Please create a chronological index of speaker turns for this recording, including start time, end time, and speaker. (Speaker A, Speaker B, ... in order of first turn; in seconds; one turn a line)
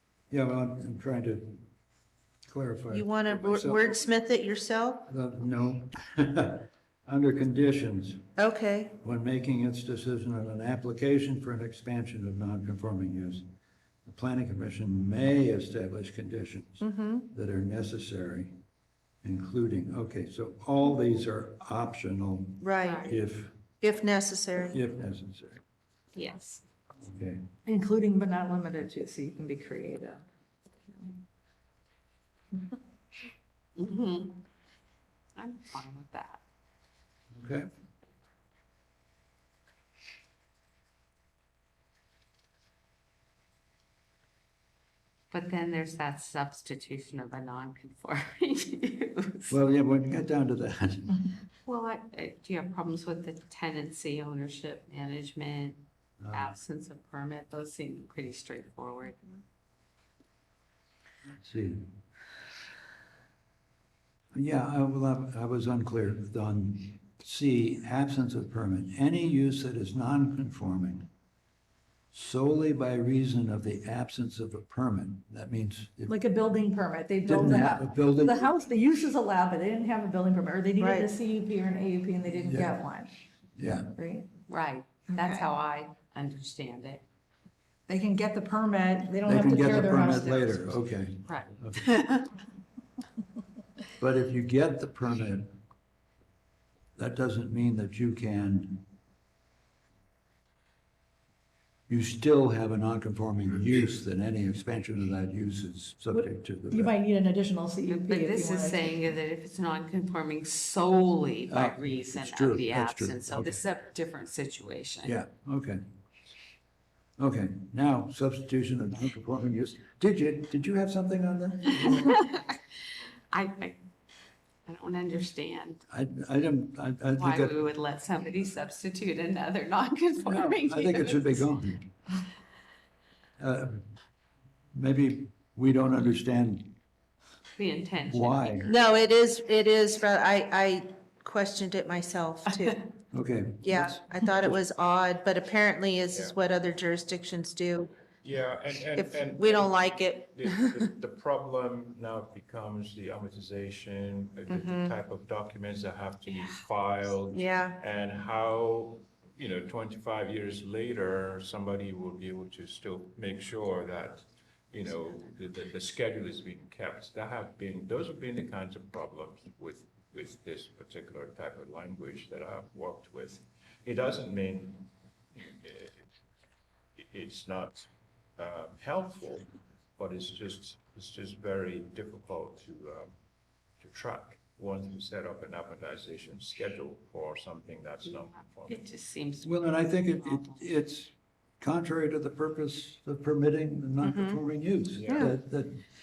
Speaker A: 0.3-1.7
Speaker A: 2.5-3.8
Speaker B: 2.9-5.1
Speaker A: 5.1-8.3
Speaker B: 8.4-9.0
Speaker A: 9.0-13.5
Speaker A: 14.1-18.5
Speaker B: 16.8-17.3
Speaker A: 19.2-23.6
Speaker B: 22.6-23.2
Speaker C: 22.8-23.1
Speaker B: 23.8-24.8
Speaker A: 24.7-25.6
Speaker C: 26.1-26.6
Speaker A: 27.0-27.4
Speaker D: 27.7-30.2
Speaker C: 33.8-34.5
Speaker C: 35.4-36.4
Speaker A: 37.3-37.7
Speaker C: 45.3-49.5
Speaker A: 49.5-51.3
Speaker C: 51.6-59.2
Speaker A: 56.2-56.6
Speaker A: 61.3-61.9
Speaker A: 64.3-71.1
Speaker A: 72.1-76.2
Speaker D: 76.1-83.1
Speaker A: 77.2-78.5
Speaker B: 80.8-81.1
Speaker A: 82.4-82.7
Speaker A: 83.6-84.0
Speaker D: 83.9-84.3
Speaker C: 84.5-87.0
Speaker D: 85.1-85.5
Speaker D: 87.9-90.6
Speaker A: 89.3-92.0
Speaker C: 91.2-92.2
Speaker A: 94.0-95.6
Speaker A: 97.0-98.9
Speaker A: 101.9-106.9
Speaker D: 106.1-108.9
Speaker C: 107.9-115.2
Speaker A: 111.5-113.6
Speaker A: 115.0-115.8
Speaker A: 117.2-122.2
Speaker C: 121.8-122.6
Speaker C: 123.3-123.8
Speaker C: 124.7-125.8
Speaker A: 125.9-127.6
Speaker C: 127.2-131.5
Speaker A: 130.2-131.9
Speaker A: 133.4-133.9
Speaker A: 134.7-136.8
Speaker C: 137.6-138.8
Speaker A: 138.1-138.7
Speaker B: 138.7-142.8
Speaker A: 143.1-144.0
Speaker B: 143.6-147.9
Speaker E: 148.2-176.0
Speaker B: 148.9-150.8
Speaker B: 154.5-154.9
Speaker B: 157.3-157.8
Speaker E: 177.0-183.2
Speaker E: 183.8-188.8
Speaker C: 188.7-190.7
Speaker A: 189.4-195.8
Speaker B: 194.0-194.4
Speaker E: 195.0-195.3
Speaker B: 195.1-195.3